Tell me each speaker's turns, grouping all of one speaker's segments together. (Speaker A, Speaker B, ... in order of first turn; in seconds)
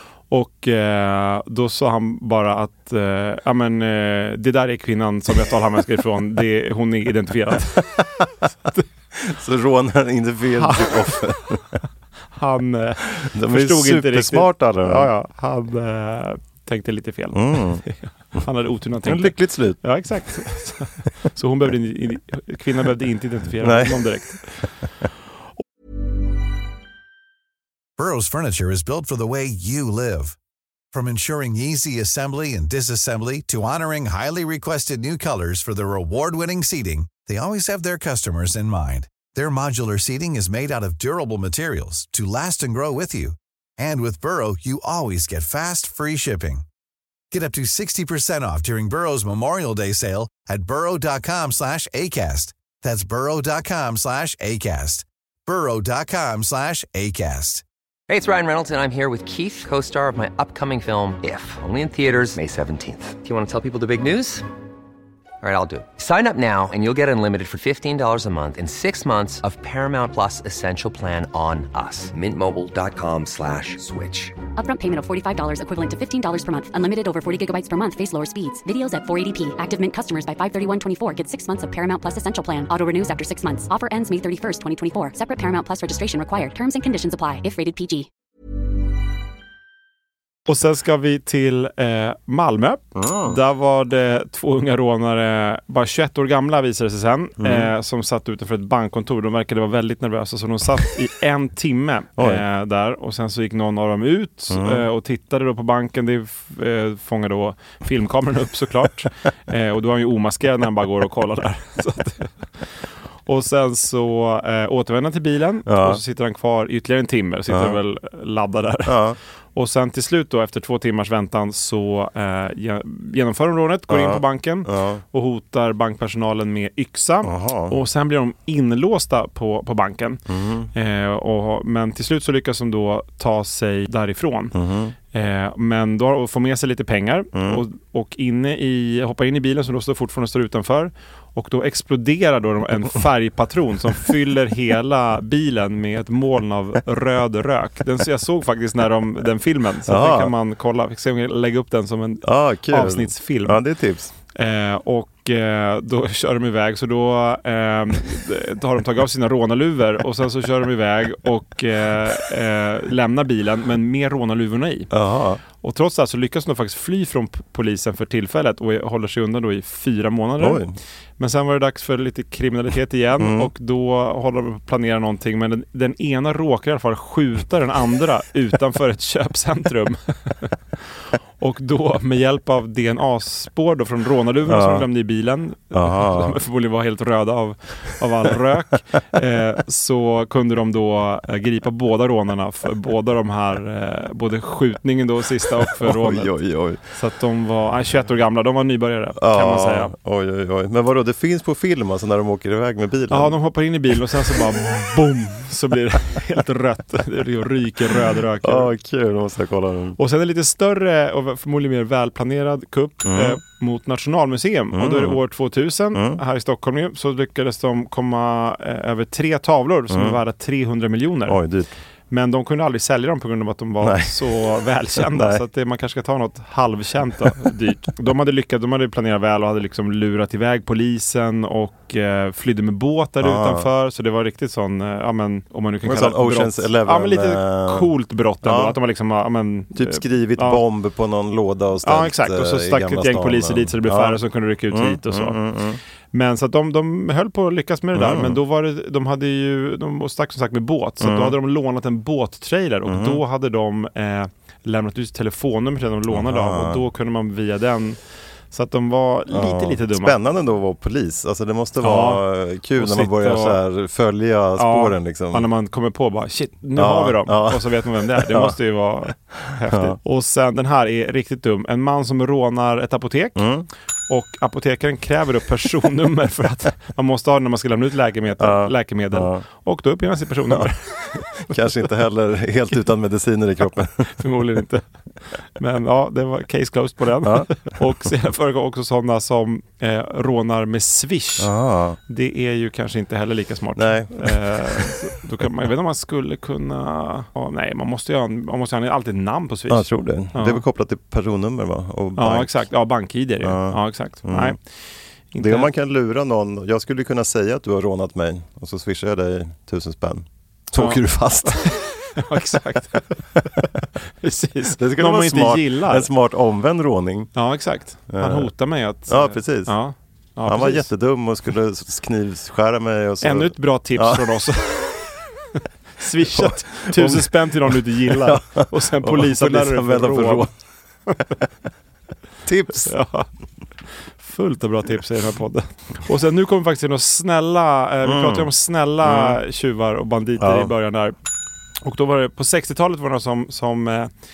Speaker A: 0.3-8.0, 10.6-11.6, 12.3-24.5, 90.5-112.3, 113.2-119.0, 119.5-130.2, 130.7-134.5, 135.1-153.6, 154.3-164.9, 165.6-170.6, 171.2-180.5, 181.4-196.3, 196.9-199.9, 203.1-208.7, 210.0-221.4, 222.1-240.6, 241.8-245.4, 246.1-258.0, 258.5-260.1, 261.8-262.2, 262.8-263.6, 264.6-273.4, 274.1-281.5, 284.1-284.8, 285.6-291.5, 292.1-300.6, 302.1-304.6, 305.3-305.7, 310.8-313.2, 314.2-316.1, 317.3-320.9, 323.2-325.1, 326.0-330.4, 332.8-333.3, 334.2-341.1, 341.8-344.1
Speaker B: 9.1-11.6, 13.2-15.1, 17.3-17.8, 19.0-19.8, 23.6-24.0, 92.9-93.4, 97.4-97.7, 102.2-102.4, 104.5-104.8, 115.7-116.0, 117.5-117.8, 118.8-119.2, 123.9-125.0, 127.2-127.7, 130.3-130.7, 134.5-134.9, 137.3-137.6, 149.9-150.3, 152.2-154.1, 164.9-165.4, 170.4-170.8, 173.2-173.5, 184.4-184.9, 185.7-186.4, 195.5-196.8, 199.2-203.3, 208.4-210.0, 213.1-213.4, 214.7-215.2, 215.9-216.2, 219.9-220.2, 221.3-221.7, 223.8-224.3, 224.9-225.4, 233.2-233.7, 235.8-237.9, 238.4-238.8, 239.7-245.8, 247.9-248.4, 251.0-251.3, 252.8-253.2, 256.1-256.8, 259.3-265.5, 266.8-268.6, 269.7-270.0, 273.4-273.7, 278.4-279.4, 280.5-284.2, 287.2-287.7, 291.4-292.0, 293.8-294.9, 299.7-302.6, 303.4-304.6, 305.4-312.2, 314.8-317.3, 318.1-318.5, 319.1-319.7, 320.4-324.3, 326.3-330.5, 332.4-332.9, 338.0-338.5, 339.0-339.4, 340.4-340.7
Speaker C: 28.0-30.4, 30.9-46.6, 47.3-57.6
Speaker D: 58.1-64.4, 65.4-74.3
Speaker E: 74.6-88.1